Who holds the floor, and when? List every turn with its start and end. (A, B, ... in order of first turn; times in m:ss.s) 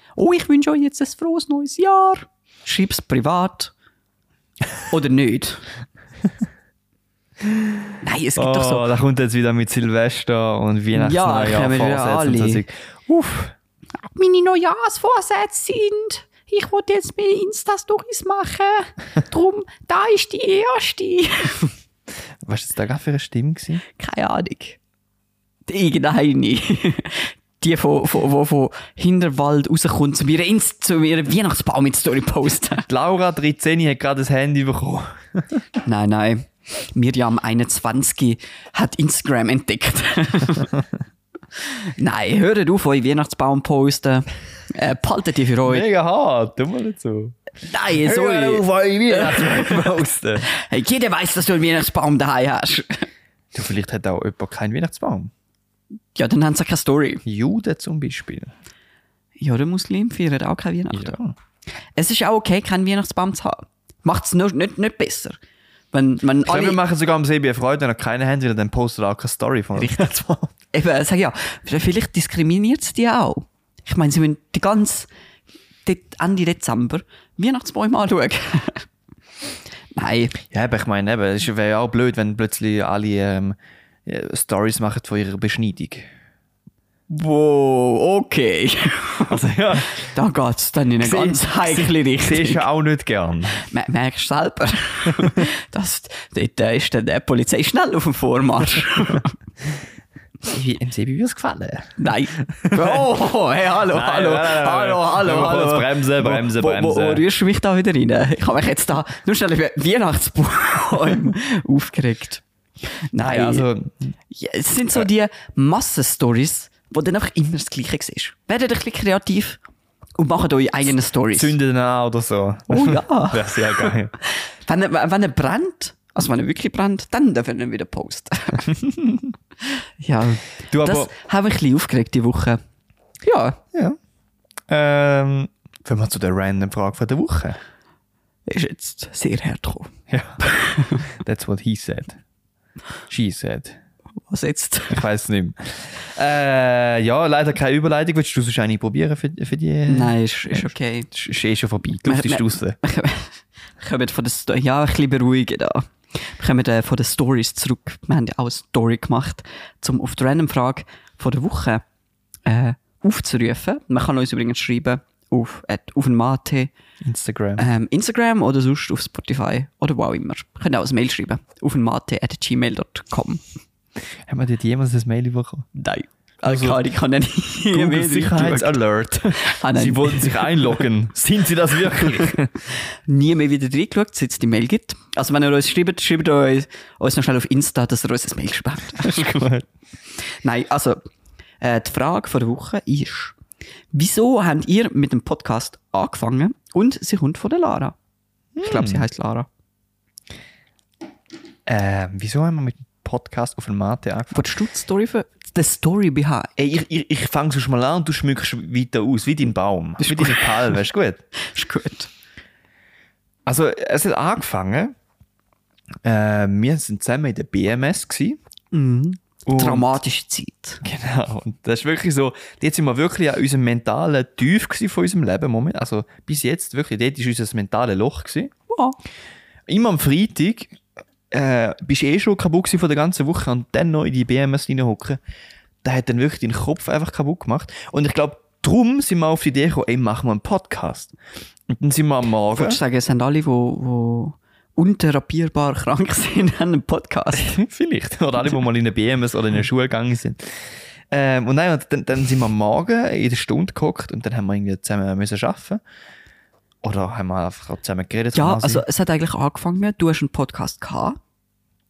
0:00.2-0:03.7 A
0:04.9-0:05.7 A
0:07.4-0:13.5 B
0:08.0-0:08.9 A
0:10.9-0:12.6 A
0:14.0-0:21.7 A
0:22.4-0:23.8 B
0:23.9-0:24.8 A
0:25.7-0:32.9 A
0:32.9-0:35.6 B
0:35.8-0:40.8 A
0:41.6-0:45.8 A
0:45.6-0:47.4 B
0:47.6-0:53.1 A
0:47.9-0:50.5 B
0:53.5-0:55.3 B
0:56.1-0:57.2 A
0:57.2-0:58.5 B
0:59.4-1:01.2 A
1:00.9-1:01.3 B
1:02.0-1:05.4 A
1:05.9-1:06.8 A
1:06.4-1:10.5 B
1:09.8-1:10.1 A
1:10.7-1:15.1 A
1:15.8-1:18.8 A
1:19.9-1:20.4 A
1:20.4-1:26.1 B
1:27.1-1:32.6 A
1:29.3-1:29.9 B
1:31.0-1:33.6 B
1:33.6-1:39.3 A
1:40.4-1:42.0 B
1:42.0-1:52.4 A
1:42.5-1:43.1 B
1:43.9-1:47.2 B
1:53.1-1:53.7 A
1:53.2-1:54.1 B
1:54.3-1:59.6 A
2:00.2-2:01.6 A
2:01.3-2:04.1 B
2:02.7-2:08.7 A
2:08.7-2:09.3 B
2:10.0-2:12.6 A
2:10.7-2:11.1 B
2:13.2-2:13.6 A
2:14.7-2:17.6 B
2:18.5-2:21.0 A
2:20.1-2:20.4 B
2:21.0-2:22.2 B
2:23.1-2:23.8 B
2:24.3-2:25.0 A
2:24.9-2:32.8 B
2:29.9-2:31.1 A
2:32.0-2:41.8 A
2:42.4-2:46.7 A
2:47.0-2:47.6 B
2:47.6-2:53.4 A
2:54.3-2:55.7 B
2:55.7-3:00.7 A
2:56.4-2:56.8 B
2:57.7-3:02.6 B
3:03.0-3:09.5 A
3:09.0-3:09.7 B
3:10.2-3:11.0 A
3:11.6-3:13.4 A
3:13.9-3:17.9 A
3:18.6-3:19.0 B
3:18.6-3:19.5 A
3:21.6-3:24.5 B
3:24.3-3:26.5 A
3:26.6-3:31.2 B
3:30.0-3:30.8 A
3:31.3-3:32.1 A
3:33.4-3:34.9 B
3:36.0-3:38.4 B
3:38.7-3:40.8 A
3:39.4-3:40.0 B
3:40.8-3:48.5 B
3:48.7-3:49.0 A
3:49.7-3:50.8 B
3:51.3-3:55.2 B
3:55.8-4:01.1 B
4:01.7-4:02.8 B
4:02.5-4:07.5 A
4:07.4-4:15.8 B
4:16.8-4:18.8 B
4:18.3-4:21.2 A